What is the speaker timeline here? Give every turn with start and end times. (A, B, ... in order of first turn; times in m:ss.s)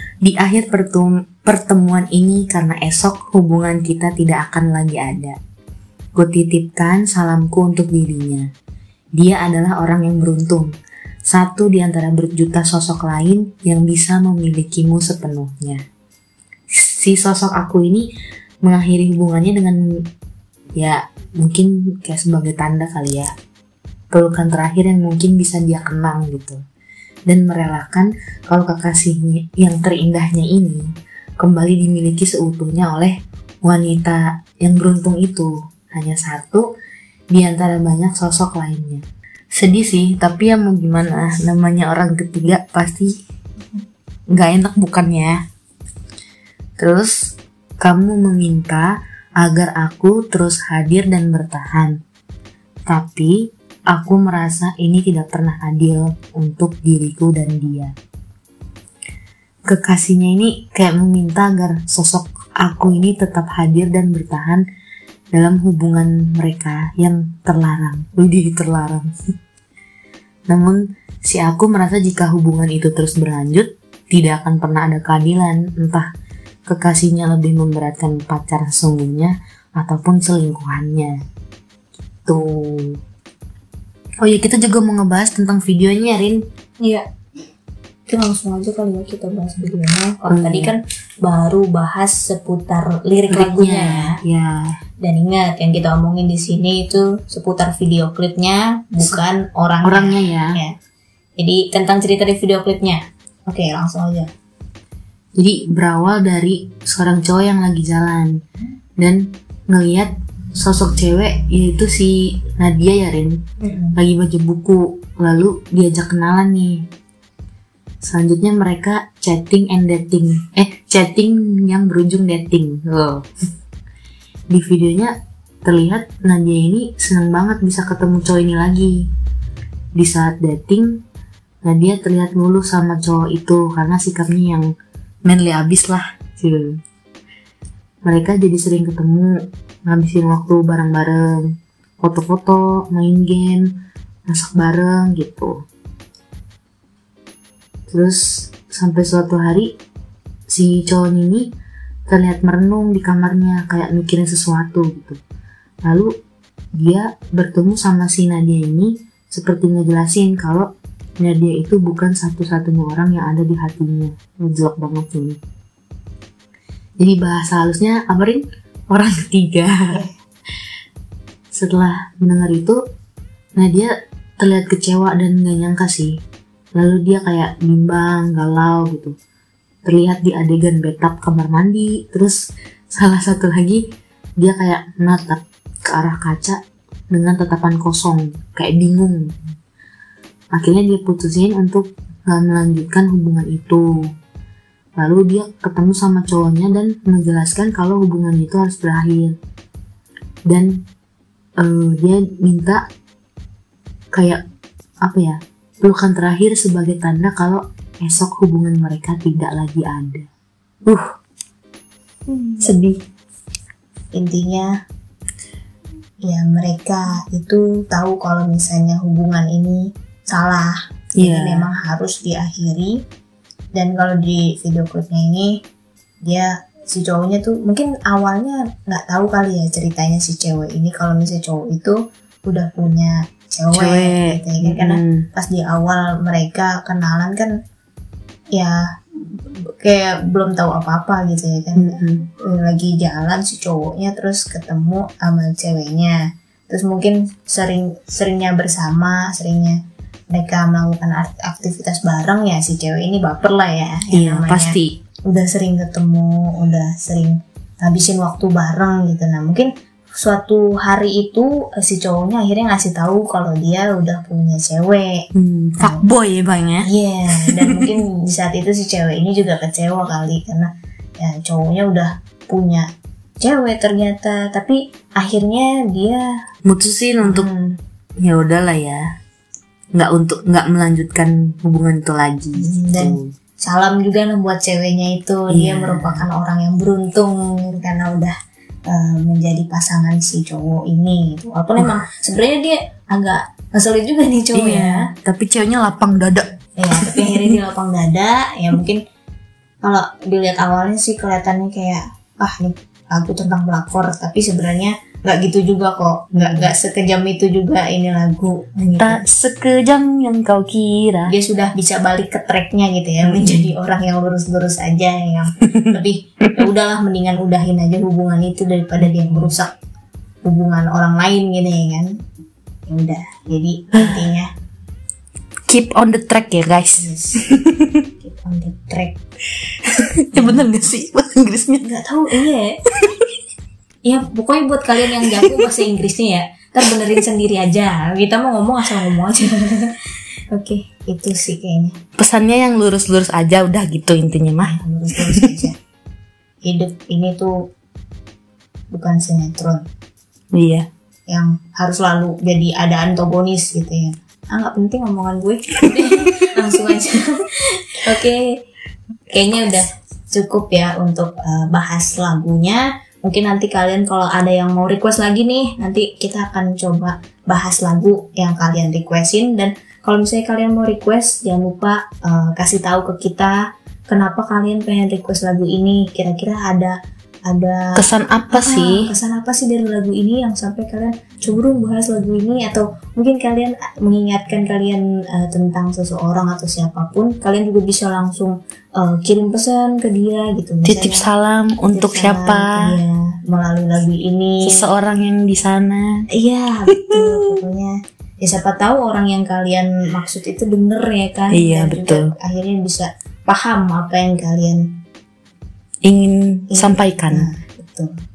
0:00.2-0:05.4 A
0:06.2-0:08.4 A
0:09.2-0:10.7 A
0:11.3-0:15.8 A
0:16.7-0:18.1 A
0:18.6-0:19.8 A
0:20.8-0:23.3 A
0:24.1-0:26.6 A
0:27.3-0:30.8 A
0:31.4-0:36.7 A
0:37.3-0:39.0 A
0:39.5-0:43.1 A
0:44.3-0:45.4 A
0:46.8-0:52.0 A
0:52.9-0:53.4 A
0:53.9-0:57.9 A
0:59.6-1:04.6 A
1:05.3-1:09.1 A
1:10.5-1:16.0 A
1:16.7-1:21.1 A
1:22.2-1:23.0 A
1:24.2-1:26.4 A
1:28.1-1:34.2 B
1:30.3-1:30.7 A
1:33.3-1:34.8 A
1:35.0-1:40.7 B
1:39.8-1:40.6 A
1:41.4-1:44.3 B
1:45.4-1:48.3 A
1:49.0-1:53.4 A
1:53.6-1:54.0 B
1:53.9-1:56.8 A
1:58.0-2:03.2 A
2:04.5-2:05.1 A
2:05.6-2:09.0 A
2:10.0-2:10.9 A
2:11.6-2:14.7 A
2:15.2-2:16.8 A
2:18.0-2:19.3 A
2:19.8-2:21.5 A
2:22.0-2:23.7 A
2:24.3-2:25.5 A
2:27.9-2:29.7 A
2:30.5-2:31.5 A
2:32.1-2:35.2 A
2:35.8-2:36.1 A
2:36.8-2:40.7 A
2:41.2-2:45.4 A
2:47.0-2:50.0 A
2:51.5-2:52.8 A
2:53.6-2:56.1 A
2:56.8-2:59.1 A
2:59.8-3:02.4 A
3:02.9-3:03.8 A
3:04.4-3:06.6 A
3:07.1-3:09.2 A
3:10.5-3:13.9 A
3:15.0-3:19.3 A
3:20.5-3:20.8 A
3:21.6-3:22.8 A
3:24.1-3:24.4 A
3:25.0-3:30.2 A
3:32.6-3:33.0 A
3:34.1-3:34.7 B
3:36.2-3:43.0 B
3:41.2-3:41.7 A
3:43.7-3:45.6 B
3:46.2-3:57.5 B
3:53.7-3:55.3 A
3:58.5-4:06.2 B
4:01.8-4:02.2 A
4:06.7-4:09.8 B
4:10.3-4:14.7 B
4:14.1-4:15.0 A
4:15.3-4:25.2 B
4:25.3-4:26.9 A
4:26.8-4:32.9 B
4:27.4-4:27.9 A
4:33.4-4:36.2 B
4:36.6-4:37.5 A
4:37.2-4:37.8 B
4:38.2-4:39.0 A
4:39.9-4:43.3 A
4:42.6-4:48.3 B
4:45.5-4:46.3 A
4:48.9-4:55.1 B
4:54.5-4:57.6 A
4:56.8-4:59.0 B
4:59.8-5:09.2 B
5:06.3-5:06.7 A
5:09.0-5:11.3 A
5:11.3-5:19.7 B
5:13.2-5:13.7 A
5:19.0-5:19.5 A
5:20.4-5:22.1 B
5:22.9-5:24.5 B
5:23.9-5:24.2 A
5:25.7-5:28.1 A
5:27.0-5:27.4 B
5:28.2-5:29.2 B
5:29.8-5:31.9 A
5:30.3-5:30.6 B
5:31.8-5:32.8 B
5:32.9-5:33.2 A
5:34.0-5:39.9 B
5:40.5-5:42.0 B
5:42.2-5:45.5 A
5:44.6-5:45.8 B
5:46.6-5:47.5 B
5:48.9-5:49.8 B
5:50.5-5:50.9 A
5:51.3-5:58.4 B
5:59.3-6:17.0 B
6:17.5-6:18.0 B
6:17.9-6:19.1 A
6:18.5-6:31.2 B
6:30.8-6:33.0 A
6:31.9-6:34.6 B
6:34.6-6:36.2 A
6:36.3-6:44.9 B
6:41.5-6:42.3 A
6:46.0-6:47.5 A
6:46.7-6:48.1 B